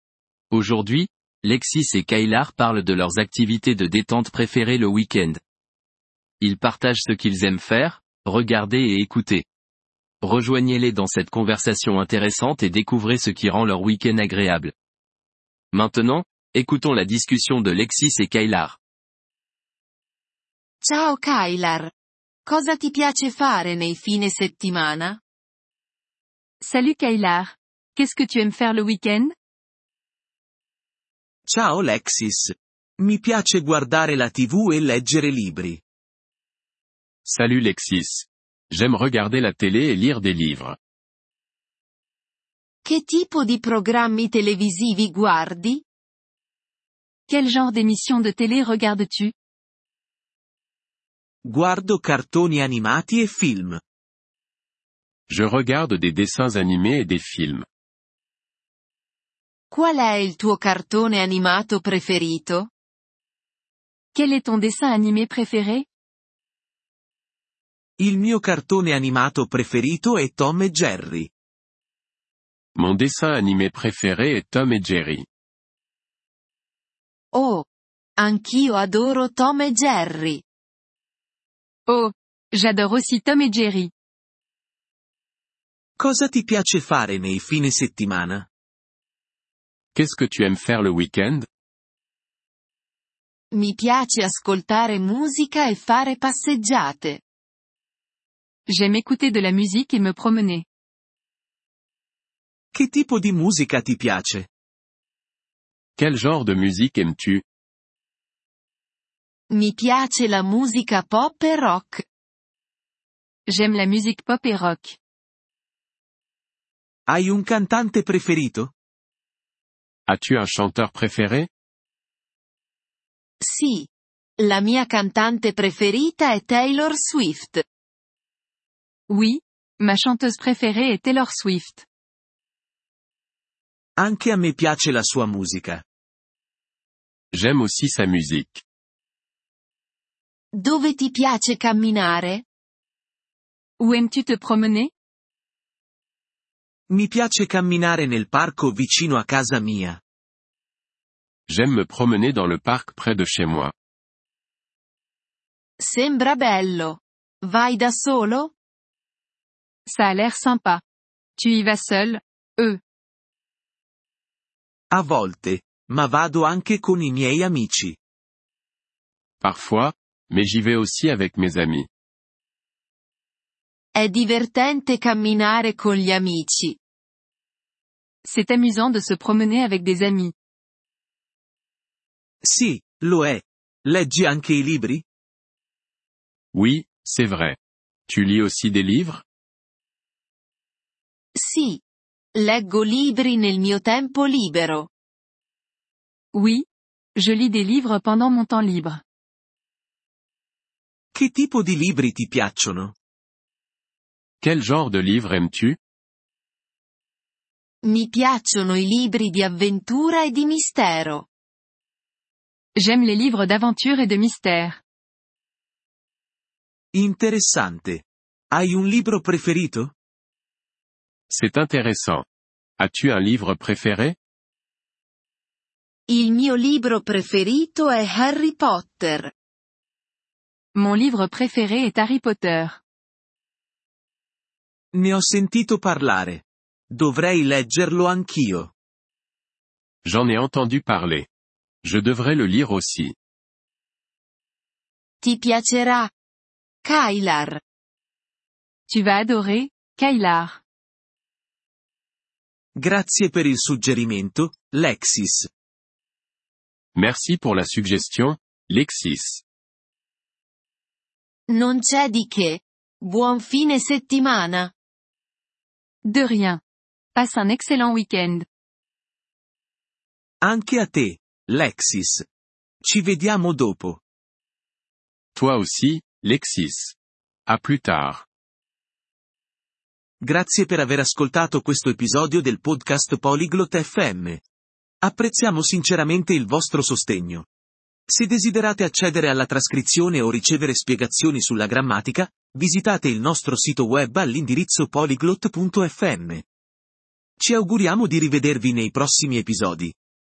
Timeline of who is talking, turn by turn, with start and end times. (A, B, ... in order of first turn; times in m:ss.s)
0:00.5-0:05.4 A
0:06.4-0:09.4 A
0:10.2-0:14.7 A
0:15.7-0:18.8 A
0:20.8-0:21.9 B
0:22.4-0:25.2 B
0:26.6-0:29.3 C
0:31.4-0:35.8 D
0:37.2-0:40.8 E
0:42.8-0:45.8 B
0:47.3-0:49.3 C
0:51.4-0:53.8 D
0:55.3-0:57.6 E
0:59.7-1:02.7 B
1:04.1-1:05.8 C
1:08.0-1:11.3 D
1:12.7-1:15.2 E
1:17.3-1:17.6 B
1:18.2-1:20.4 B
1:21.9-1:23.9 C
1:26.0-1:28.5 D
1:29.9-1:31.5 E
1:33.5-1:37.2 B
1:38.7-1:40.6 C
1:42.7-1:44.5 D
1:46.0-1:47.4 E
1:49.5-1:52.0 B
1:53.5-1:55.0 C
1:57.1-1:58.7 D
2:00.1-2:01.5 E
2:03.4-2:07.6 B
2:09.1-2:11.8 C
2:14.0-2:15.8 D
2:17.3-2:18.6 E
2:20.5-2:22.4 B
2:23.8-2:24.9 C
2:26.9-2:30.0 D
2:31.5-2:33.7 E
2:35.8-2:38.5 B
2:39.9-2:40.8 C
2:41.4-2:42.8 C
2:44.9-2:48.0 D
2:49.4-2:51.9 E
2:53.9-2:56.8 B
2:58.2-3:00.3 C
3:02.4-3:05.0 D
3:06.5-3:09.2 E
3:11.4-3:11.8 B
3:12.3-3:14.9 B
3:16.3-3:19.0 C
3:21.1-3:22.9 D
3:24.4-3:25.8 E
3:27.8-3:31.3 B
3:32.7-3:34.8 C
3:36.9-3:39.9 D
3:41.3-3:42.2 E
3:42.8-3:44.2 E
3:46.1-3:49.3 B
3:50.7-3:52.8 C
3:54.9-3:58.7 D
4:00.0-4:01.3 E
4:01.8-4:03.1 E
4:05.2-4:06.1 B
4:06.8-4:07.6 B
4:08.9-4:10.6 C
4:12.8-4:15.5 D
4:16.9-4:19.4 E
4:21.5-4:24.7 B
4:26.0-4:26.6 C
4:27.1-4:28.4 C
4:30.4-4:32.2 D
4:32.8-4:34.0 D
4:35.3-4:37.0 E
4:37.5-4:38.2 E
4:40.2-4:44.4 D
4:45.0-4:47.5 D
4:48.1-4:56.4 D
4:57.4-4:59.9 D